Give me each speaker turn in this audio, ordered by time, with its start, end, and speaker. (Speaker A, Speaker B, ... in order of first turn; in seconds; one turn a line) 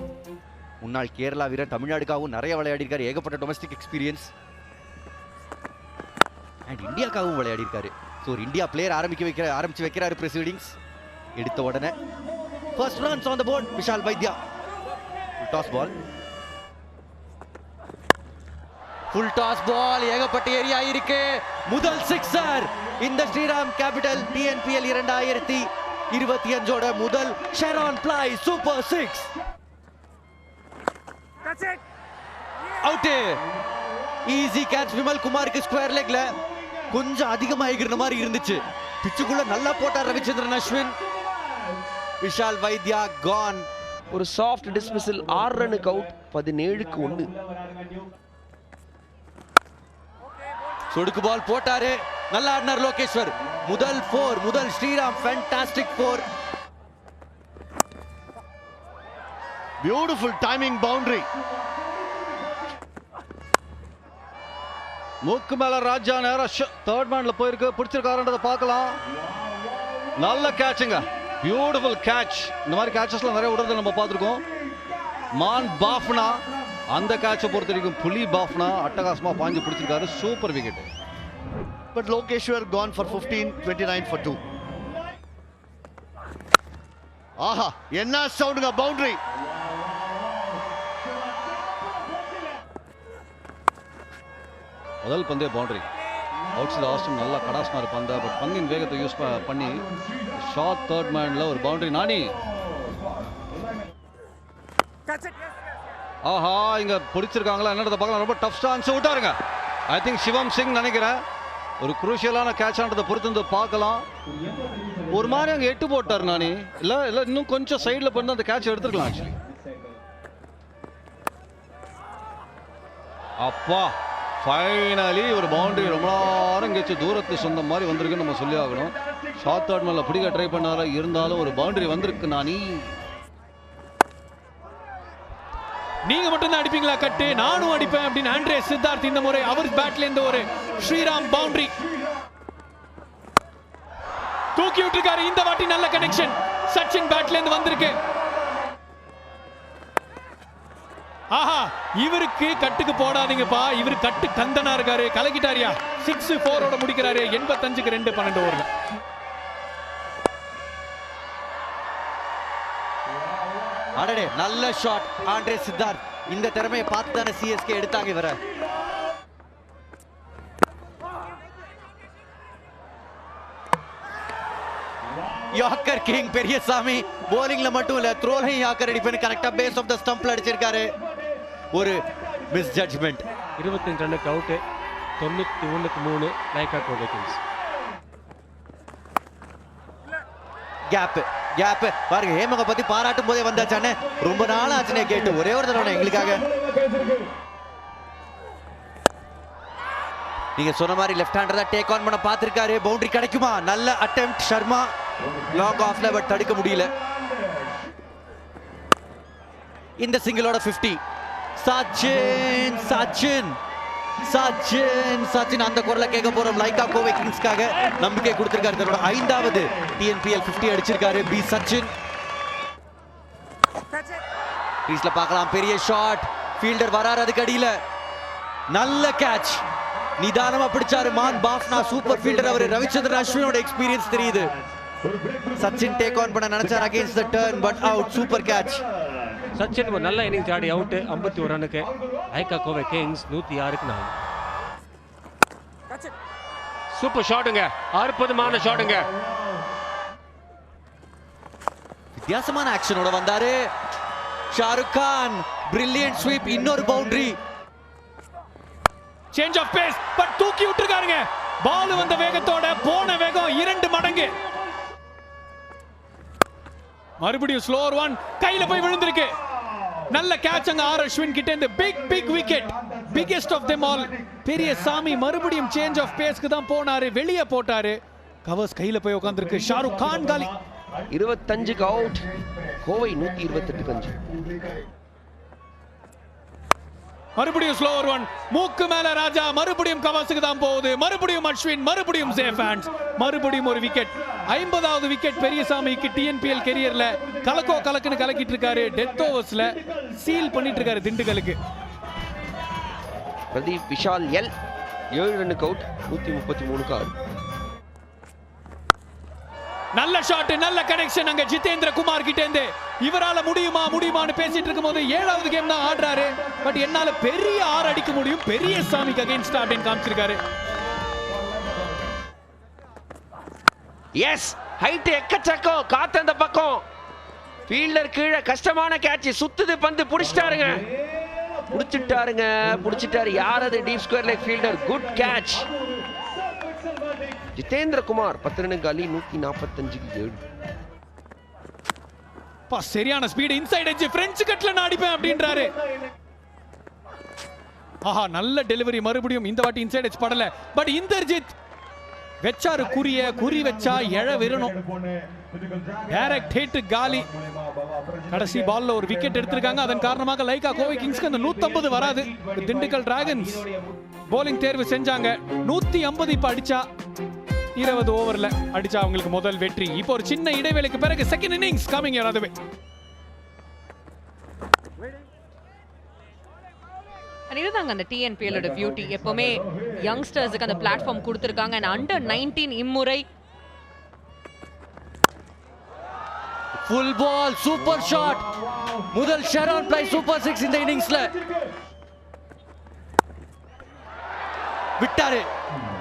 Speaker A: 0.8-4.3
Speaker A: 6.7-10.7
Speaker A: 11.3-12.0
Speaker A: 12.8-14.4
Speaker A: 15.4-15.9
Speaker A: 19.1-29.3
Speaker A: 32.8-33.4
Speaker A: 34.2-36.4
Speaker A: 36.9-41.0
Speaker A: 42.2-43.6
Speaker B: 44.1-48.0
Speaker A: 50.9-56.3
Speaker C: 59.8-61.3
Speaker D: 65.2-69.0
Speaker D: 70.2-74.4
Speaker D: 75.3-80.9
Speaker C: 81.9-84.4
Speaker C: 87.4-89.2
Speaker D: 95.0-95.9
Speaker D: 96.5-99.8
Speaker D: 100.3-102.3
Speaker D: 106.2-109.4
Speaker D: 109.9-111.2
Speaker D: 111.8-114.0
Speaker B: 114.3-115.1
Speaker D: 115.1-119.4
Speaker D: 123.4-132.9
Speaker E: 136.1-141.8
Speaker E: 144.6-148.0
Speaker E: 151.3-158.7
Speaker A: 163.9-168.4
Speaker A: 175.5-180.9
Speaker A: 181.7-183.2
Speaker F: 183.6-184.6
Speaker F: 185.2-187.4
Speaker A: 190.9-196.5
Speaker A: 200.6-204.8
Speaker A: 205.5-206.9
Speaker A: 210.0-211.0
Speaker A: 211.6-213.6
Speaker A: 214.2-221.9
Speaker A: 224.9-227.8
Speaker A: 228.7-229.6
Speaker A: 230.2-234.6
Speaker A: 235.6-238.8
Speaker F: 239.5-244.1
Speaker F: 246.9-249.1
Speaker A: 252.2-253.7
Speaker A: 254.5-257.4
Speaker E: 259.3-264.4
Speaker E: 267.2-269.4
Speaker E: 270.1-280.5
Speaker B: 281.1-282.3
Speaker B: 282.8-284.3
Speaker E: 287.4-301.6
Speaker B: 303.5-304.5
Speaker B: 305.1-307.1
Speaker E: 309.9-320.4
Speaker B: 324.2-326.8
Speaker B: 327.7-330.9
Speaker B: 331.7-335.7
Speaker B: 337.5-340.5
Speaker E: 342.7-345.7
Speaker E: 348.0-351.5
Speaker E: 352.4-354.7
Speaker B: 354.9-355.9
Speaker E: 356.1-357.3
Speaker B: 357.3-358.1
Speaker E: 358.3-363.6
Speaker E: 364.3-366.8
Speaker E: 367.8-372.5
Speaker G: 377.5-383.2
Speaker A: 386.8-388.5
Speaker A: 389.1-391.4
Speaker A: 395.0-395.5